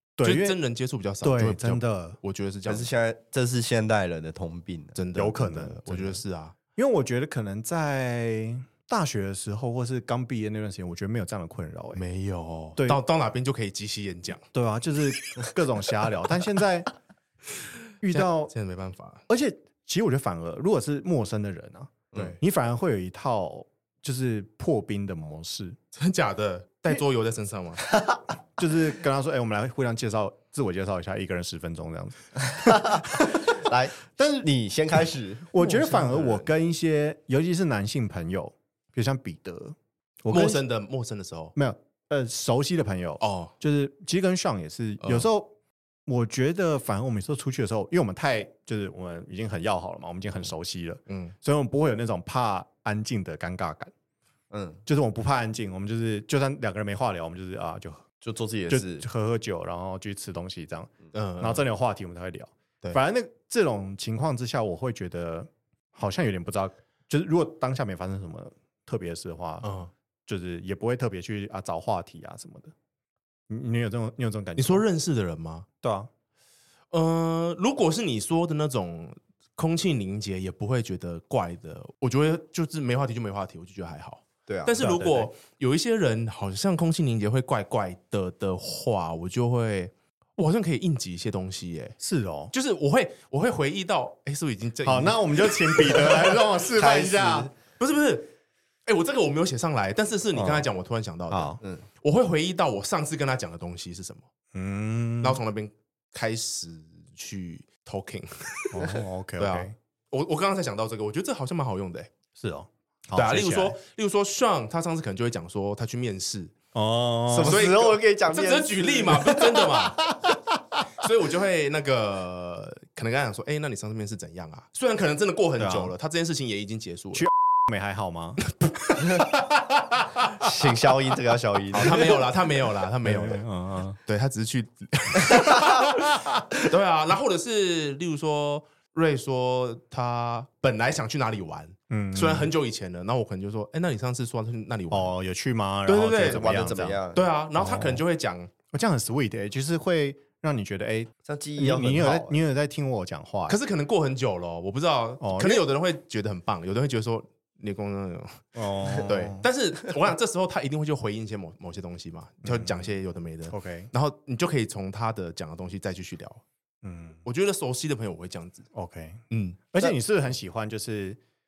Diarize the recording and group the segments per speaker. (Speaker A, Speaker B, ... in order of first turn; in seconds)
Speaker A: 0.2-0.6, 1.2-2.2, 5.1-6.2, 6.7-12.0, 12.8-13.0, 14.5-16.9, 18.0-18.5, 19.3-25.8, 28.6-33.6, 34.1-34.5, 35.5-40.6, 41.5-45.5, 46.1-53.9, 54.9-58.0, 58.7-69.7, 70.3-72.7, 73.5-74.8, 75.8-76.1, 84.8-85.3, 92.0-92.5, 94.8-97.5, 100.3-100.7, 101.3-101.6, 104.5-105.4, 108.7-109.7, 112.4-113.8, 116.7-117.7, 120.0-120.6, 125.6-125.9, 127.1-130.5, 133.0-134.0, 135.3-136.4, 141.9-142.5, 144.9-147.0, 147.6-148.0, 148.7-153.6, 155.2-155.6, 158.5-159.4, 162.4-162.8, 163.5-163.9, 166.8-167.2, 168.7-169.2, 169.7-171.2
Speaker B: 0.2-2.9, 5.0-6.5, 11.9-14.4, 18.1-19.2, 25.9-27.9, 35.6-36.5, 40.3-41.5, 43.2-43.5, 45.0-45.3, 51.1-51.3, 61.1-61.6, 69.6-69.9, 74.6-75.7, 76.9-92.0, 92.5-96.3, 97.8-98.3, 98.8-104.2, 105.2-112.1, 113.2-116.5, 117.4-120.0, 121.0-127.3, 131.7-133.4, 134.0-145.1, 145.9-146.4, 147.1-148.5, 153.5-166.4, 167.2-168.7, 169.3-169.6
Speaker C: 2.6-5.0, 32.6-35.5, 54.5-54.8, 58.2-59.0, 84.5-84.8, 96.7-97.5, 117.3-119.3, 130.4-132.2, 146.2-147.3, 151.2-152.4